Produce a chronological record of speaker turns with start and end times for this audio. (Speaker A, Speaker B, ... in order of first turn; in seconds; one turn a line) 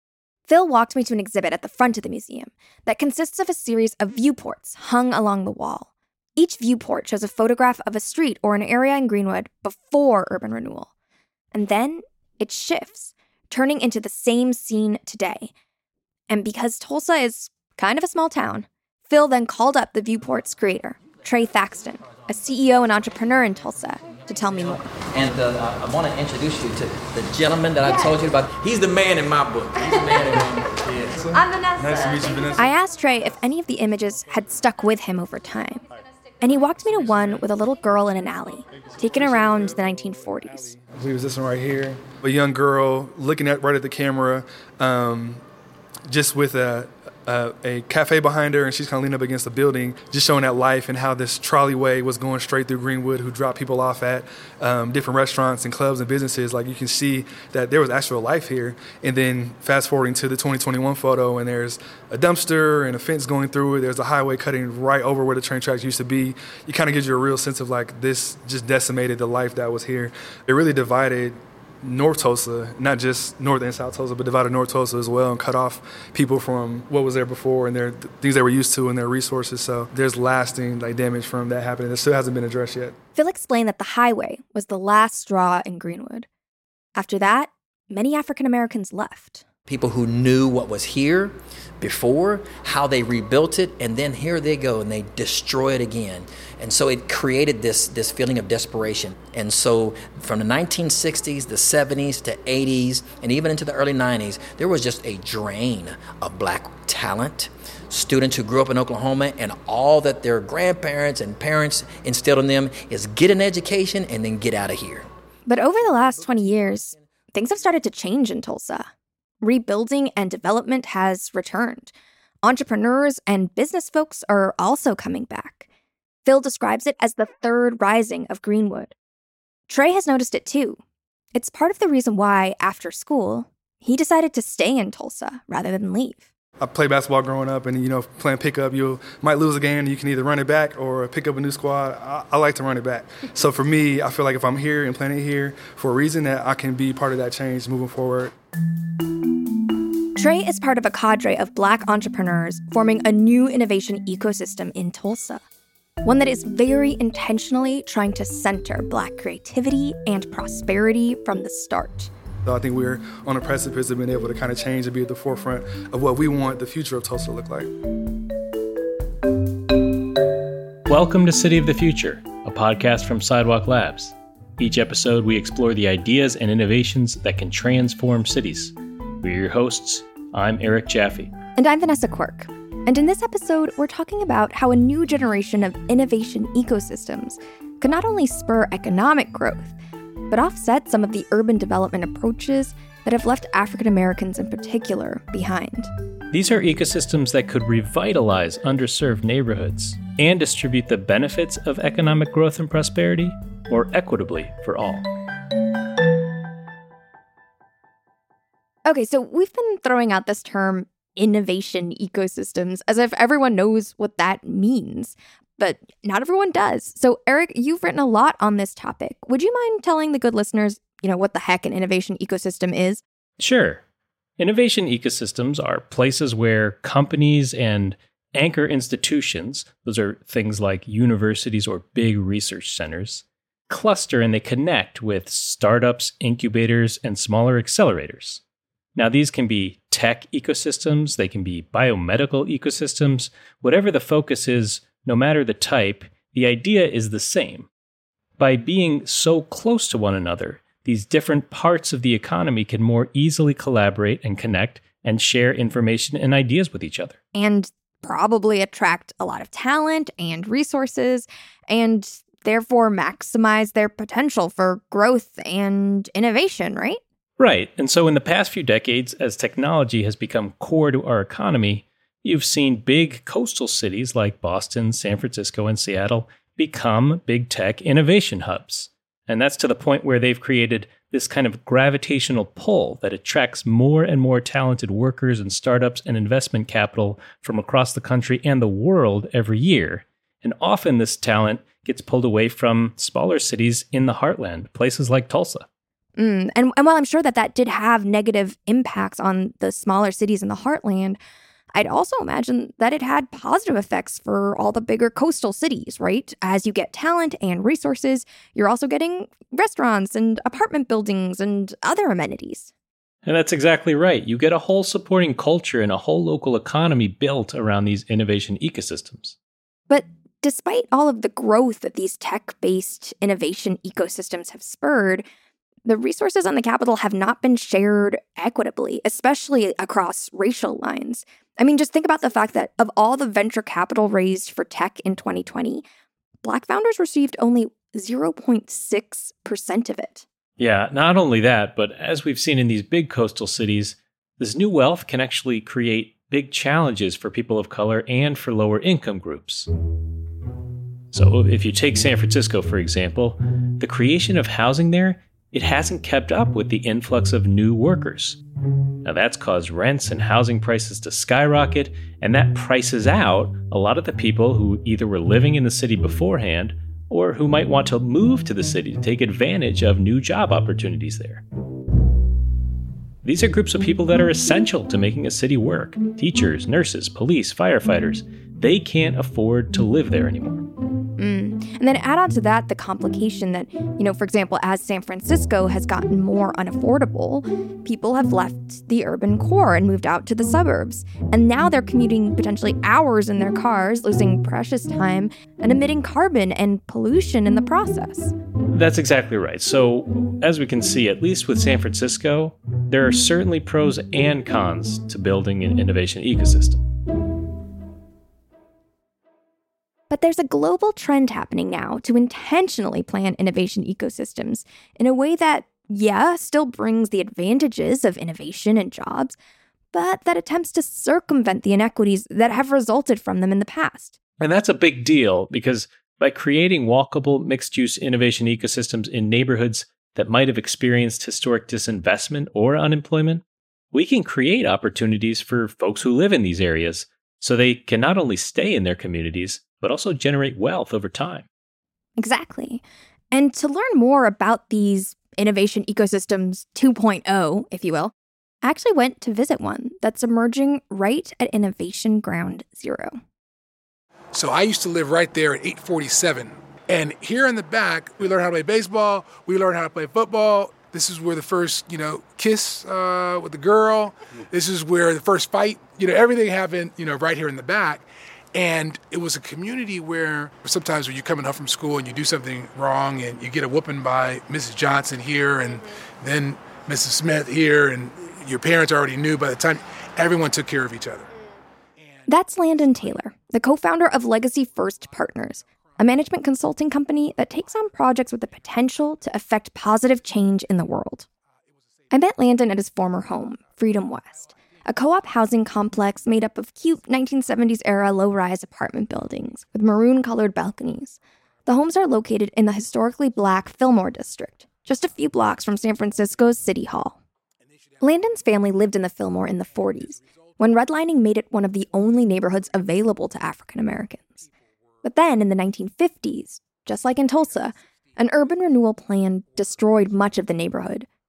Speaker A: 0.5-10.9
Speaker A: 11.5-15.5
Speaker A: 16.3-24.8
Speaker B: 24.9-31.2
Speaker C: 31.1-32.7
Speaker A: 31.3-35.8
Speaker A: 36.4-40.7
Speaker C: 38.9-40.0
Speaker C: 40.7-45.4
Speaker C: 46.1-82.9
Speaker A: 83.2-86.3
Speaker A: 87.0-89.4
Speaker B: 89.7-115.1
Speaker A: 115.5-118.9
Speaker A: 119.4-121.9
Speaker A: 122.4-125.7
Speaker A: 126.2-128.9
Speaker A: 129.7-130.8
Speaker A: 131.3-136.2
Speaker C: 136.6-148.3
Speaker A: 150.2-155.4
Speaker A: 156.0-162.1
Speaker C: 162.4-167.7
Speaker D: 170.9-181.3
Speaker A: 181.6-189.7
Speaker A: 190.3-195.9
Speaker D: 196.3-205.1
Speaker A: 208.8-223.0
Speaker D: 223.4-223.8
Speaker D: 224.4-238.4
Speaker D: 238.9-247.7
Speaker D: 248.4-257.2
Speaker A: 257.3-267.0
Speaker D: 267.4-295.6
Speaker A: 296.2-301.2
Speaker A: 301.7-312.7
Speaker D: 313.2-319.4
Speaker A: 319.9-325.2
Speaker A: 325.8-335.8
Speaker A: 336.4-340.2
Speaker D: 340.6-349.7
Speaker D: 351.1-358.4
Speaker D: 359.0-371.4
Speaker D: 373.2-380.7
Speaker A: 381.2-398.3
Speaker D: 398.7-406.8
Speaker A: 410.1-419.4
Speaker A: 419.9-424.1
Speaker D: 424.4-441.4
Speaker A: 442.2-453.2
Speaker E: 454.3-481.3
Speaker A: 482.3-491.2
Speaker A: 492.1-507.2
Speaker A: 508.0-514.5
Speaker A: 515.0-521.1